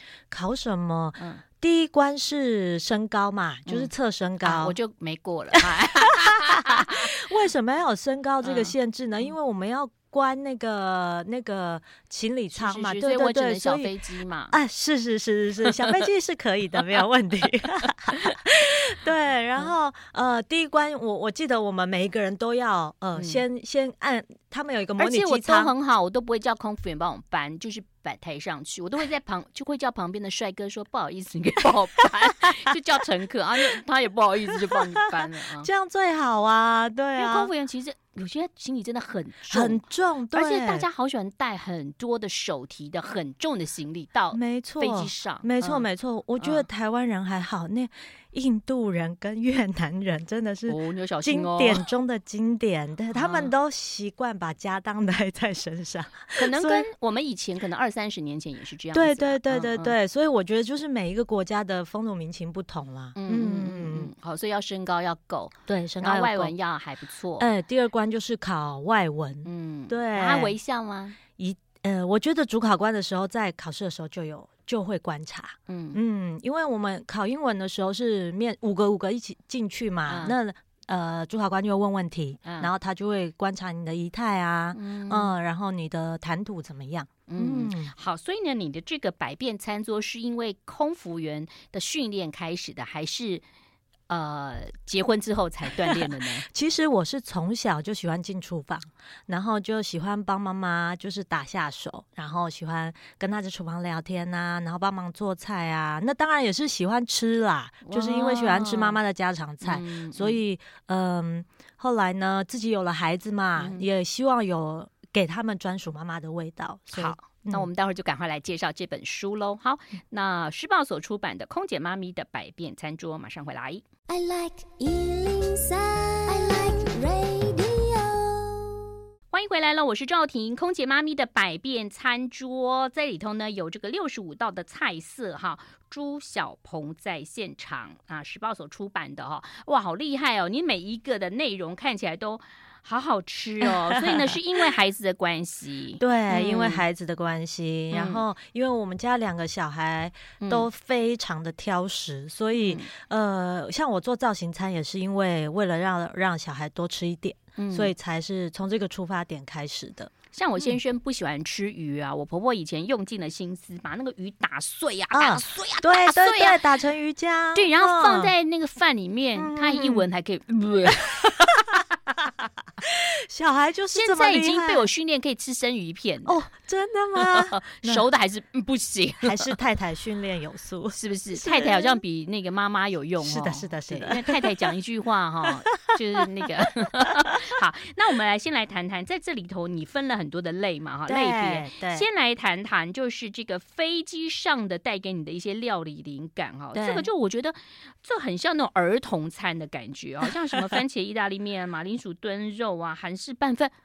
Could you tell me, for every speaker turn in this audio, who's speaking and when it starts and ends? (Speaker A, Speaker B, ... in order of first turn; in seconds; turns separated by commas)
Speaker A: 0.3-4.8, Speaker B: 3.6-7.1, Speaker A: 5.6-13.9, Speaker B: 8.4-8.7, Speaker B: 12.5-14.6, Speaker A: 14.5-25.7, Speaker B: 23.1-23.4, Speaker B: 25.0-35.7, Speaker A: 34.5-37.5, Speaker B: 37.1-45.9, Speaker A: 39.5-40.9, Speaker A: 44.3-56.9, Speaker B: 46.4-46.6, Speaker B: 50.7-51.9, Speaker B: 53.1-53.5, Speaker B: 56.3-59.9, Speaker A: 58.9-64.1, Speaker B: 63.1-67.5, Speaker A: 65.7-66.5, Speaker A: 67.4-70.5, Speaker B: 69.4-71.2, Speaker A: 71.4-87.9, Speaker B: 75.7-76.0, Speaker B: 80.0-80.3, Speaker B: 82.4-82.7, Speaker B: 84.7-85.3, Speaker B: 87.3-93.4, Speaker B: 94.1-96.5, Speaker A: 95.8-117.7, Speaker B: 107.8-109.0, Speaker B: 109.6-110.4, Speaker B: 113.6-113.8, Speaker B: 116.9-123.8, Speaker C: 124.1-128.8, Speaker B: 129.3-146.8, Speaker A: 143.6-144.6, Speaker A: 146.0-160.8, Speaker B: 147.9-148.2, Speaker B: 150.4-150.7, Speaker B: 152.6-152.9, Speaker B: 157.6-157.9, Speaker B: 160.3-166.6, Speaker A: 165.1-168.3, Speaker B: 167.5-171.8, Speaker A: 169.4-170.0, Speaker A: 172.8-174.9, Speaker B: 173.9-176.4, Speaker A: 176.2-178.0, Speaker B: 177.1-179.6, Speaker A: 179.2-182.0, Speaker B: 180.9-203.7, Speaker A: 183.2-184.7, Speaker A: 185.4-185.9, Speaker A: 191.1-192.1, Speaker A: 196.7-197.1